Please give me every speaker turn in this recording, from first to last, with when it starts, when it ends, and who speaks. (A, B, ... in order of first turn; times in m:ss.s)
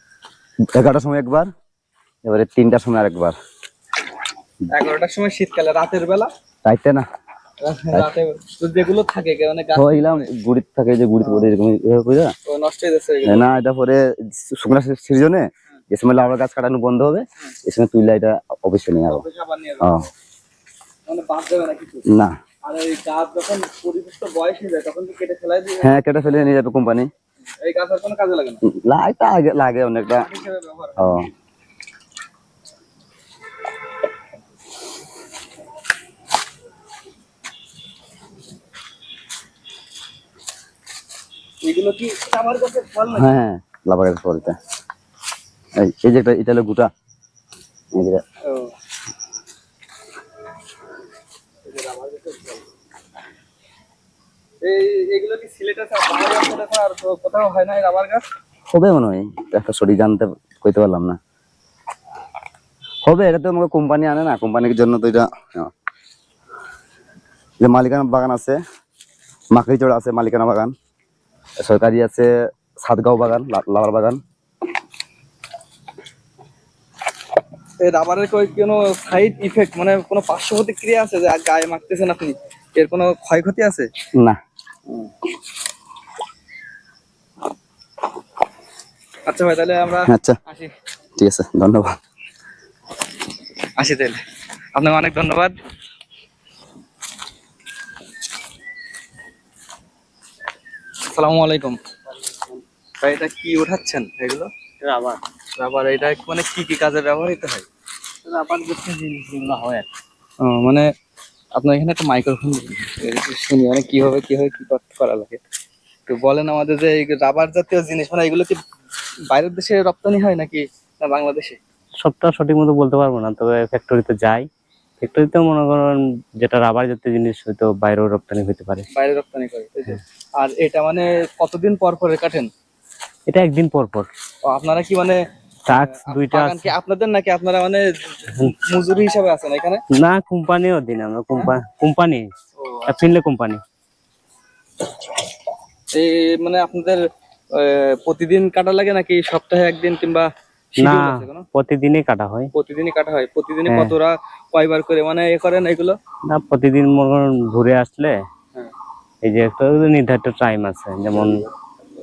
0:00.7-0:01.5 A
0:02.2-0:03.4 A
0:04.7-0:06.3 B
0:06.6-0:07.0 A
0:07.6-0:10.3 B
0:09.7-0:12.3 A
0:11.2-0:11.5 B
0:12.5-0:13.5 B
0:13.2-0:19.2 A
0:19.1-0:19.9 B
0:19.8-0:20.1 A
0:21.1-0:22.0 B
0:22.1-0:22.4 A
0:22.6-0:26.0 B
0:25.8-0:27.1 A
0:27.6-0:28.6 B
0:28.6-0:30.3 A
0:30.1-0:31.2 B
0:31.0-0:31.3 A
0:41.6-0:43.3 B
0:43.1-0:44.6 A
0:45.8-0:46.9 A
0:47.9-0:48.2 A
0:48.4-0:48.7 B
0:51.6-0:52.6 B
0:54.6-0:58.2 B
0:58.7-1:01.2 A
1:03.0-1:05.7 A
1:07.6-1:08.6 A
1:09.5-1:10.7 A
1:11.6-1:14.2 A
1:17.8-1:23.9 B
1:29.3-1:30.7 B
1:30.1-1:30.4 A
1:31.2-1:32.0 A
1:33.8-1:34.2 B
1:34.7-1:35.6 B
1:41.0-1:41.8 B
1:43.0-1:44.5 B
1:44.8-1:45.2 C
1:45.6-1:47.6 B
1:48.2-1:49.8 C
1:50.4-1:50.9 B
1:51.5-1:55.4 B
1:56.1-1:58.6 B
1:59.3-2:01.6 B
2:02.0-2:04.4 C
2:05.0-2:08.9 C
2:08.9-2:12.5 B
2:13.3-2:14.1 C
2:14.4-2:19.8 B
2:15.7-2:16.7 C
2:19.9-2:22.3 C
2:22.6-2:23.1 B
2:22.9-2:23.6 C
2:25.9-2:31.4 B
2:30.8-2:32.5 C
2:32.5-2:36.0 B
2:33.7-2:33.9 C
2:36.3-2:38.2 C
2:39.2-2:41.4 C